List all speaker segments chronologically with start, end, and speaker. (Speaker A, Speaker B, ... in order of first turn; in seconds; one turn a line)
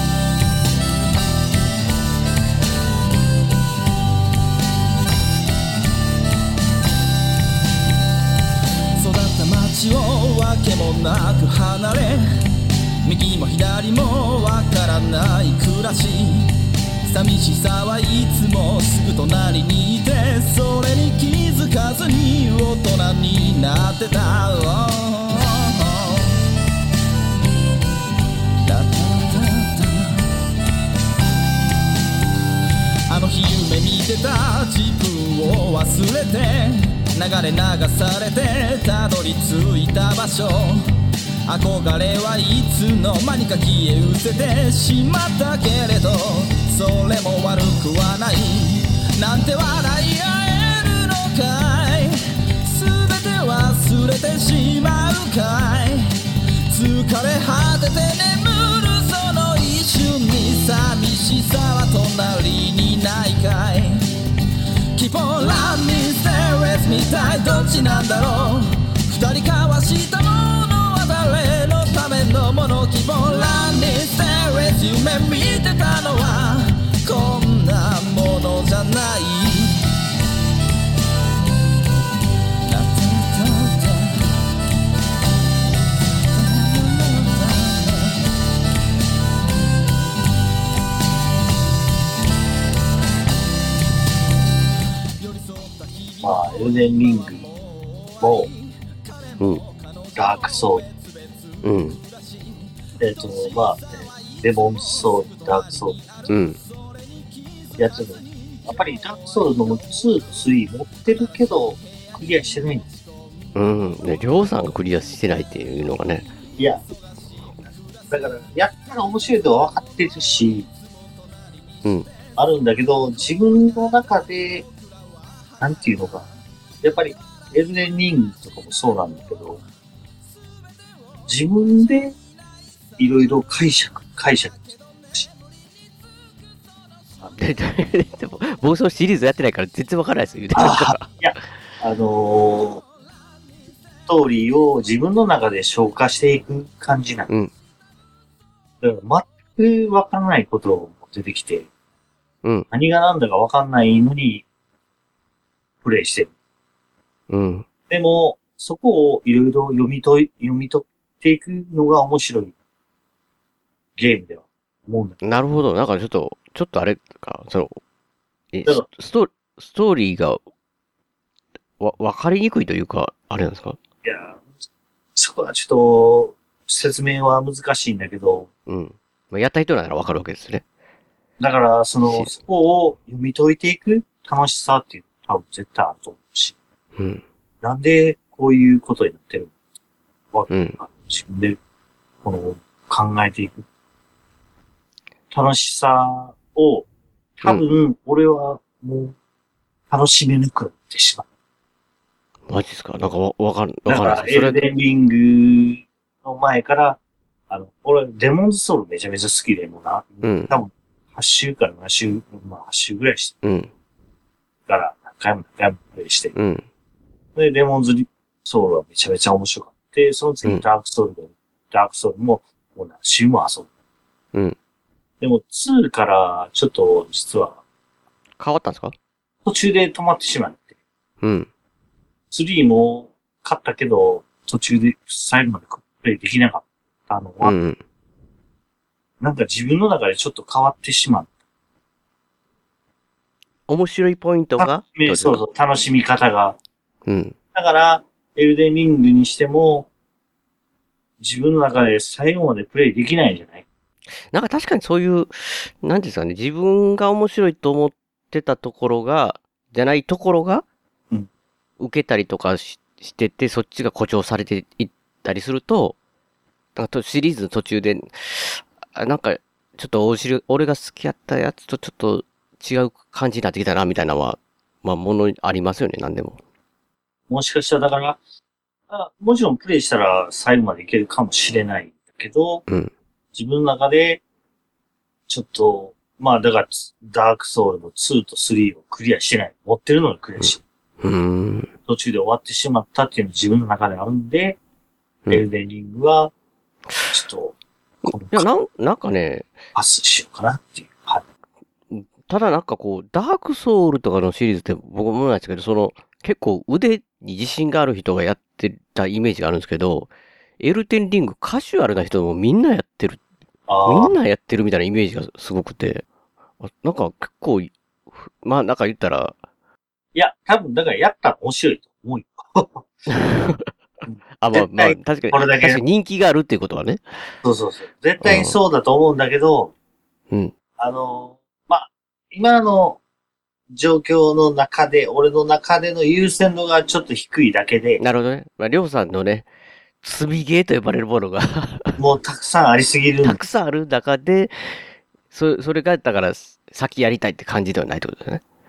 Speaker A: 9.0-12.2
Speaker A: 13.0-16.5
Speaker A: 17.0-26.3
Speaker A: 28.6-30.3
Speaker A: 33.1-40.9
Speaker A: 41.5-64.1
Speaker A: 64.9-79.9
Speaker A: 82.6-84.2
Speaker A: 86.3-88.1
Speaker A: 95.2-96.5
Speaker B: 96.2-97.5
Speaker B: 98.2-98.5
Speaker A: 99.1-100.2
Speaker B: 100.1-100.8
Speaker A: 100.8-101.6
Speaker C: 101.6-102.0
Speaker A: 102.1-102.7
Speaker B: 103.0-106.0
Speaker A: 106.0-106.6
Speaker C: 106.3-106.6
Speaker B: 107.8-112.9
Speaker C: 113.5-116.3
Speaker B: 116.6-116.8
Speaker B: 118.1-120.7
Speaker B: 122.4-124.6
Speaker B: 125.6-126.3
Speaker B: 126.8-129.6
Speaker B: 131.3-132.1
Speaker B: 133.0-135.3
Speaker C: 137.4-141.1
Speaker B: 140.6-142.8
Speaker B: 144.1-147.3
Speaker B: 148.8-151.7
Speaker B: 152.7-154.4
Speaker B: 155.8-156.3
Speaker C: 157.3-157.7
Speaker B: 157.9-162.5
Speaker B: 163.9-165.2
Speaker C: 165.2-167.8
Speaker C: 168.5-170.4
Speaker C: 171.8-173.8
Speaker B: 174.0-174.4
Speaker B: 175.2-178.5
Speaker C: 178.7-180.6
Speaker B: 181.4-186.5
Speaker C: 186.9-187.2
Speaker B: 187.6-189.5
Speaker B: 190.3-191.6
Speaker C: 190.5-190.8
Speaker B: 192.2-193.7
Speaker B: 195.3-196.8
Speaker B: 197.4-199.1
Speaker B: 199.9-201.2
Speaker C: 202.5-204.7
Speaker B: 203.9-207.0
Speaker B: 207.5-213.3
Speaker C: 210.2-210.5
Speaker C: 213.4-213.7
Speaker B: 214.7-216.3
Speaker C: 216.3-216.6
Speaker B: 217.3-223.7
Speaker B: 225.2-227.6
Speaker C: 228.4-228.9
Speaker B: 229.4-230.7
Speaker C: 231.2-231.5
Speaker B: 232.3-237.5
Speaker C: 237.4-237.8
Speaker B: 239.2-241.3
Speaker C: 243.7-245.4
Speaker B: 244.6-246.6
Speaker C: 247.1-247.3
Speaker B: 247.5-249.9
Speaker B: 251.2-253.6
Speaker C: 254.3-260.6
Speaker C: 261.8-265.9
Speaker C: 266.8-276.4
Speaker B: 277.3-278.2
Speaker B: 278.9-282.6
Speaker C: 282.7-282.9
Speaker B: 283.3-284.2
Speaker B: 285.3-290.6
Speaker C: 290.4-291.7
Speaker B: 291.9-294.6
Speaker B: 295.3-296.3
Speaker B: 297.1-297.5
Speaker B: 298.1-298.4
Speaker C: 298.3-299.5
Speaker B: 299.7-301.2
Speaker C: 301.9-313.2
Speaker B: 313.7-314.1
Speaker C: 313.8-316.0
Speaker C: 316.6-319.4
Speaker B: 320.1-322.9
Speaker C: 323.1-323.7
Speaker B: 324.0-325.8
Speaker C: 324.4-327.1
Speaker B: 327.4-329.7
Speaker C: 328.2-328.5
Speaker B: 330.8-333.0
Speaker B: 333.7-338.0
Speaker C: 338.0-339.4
Speaker C: 340.0-342.0
Speaker B: 342.0-343.4
Speaker C: 343.2-348.4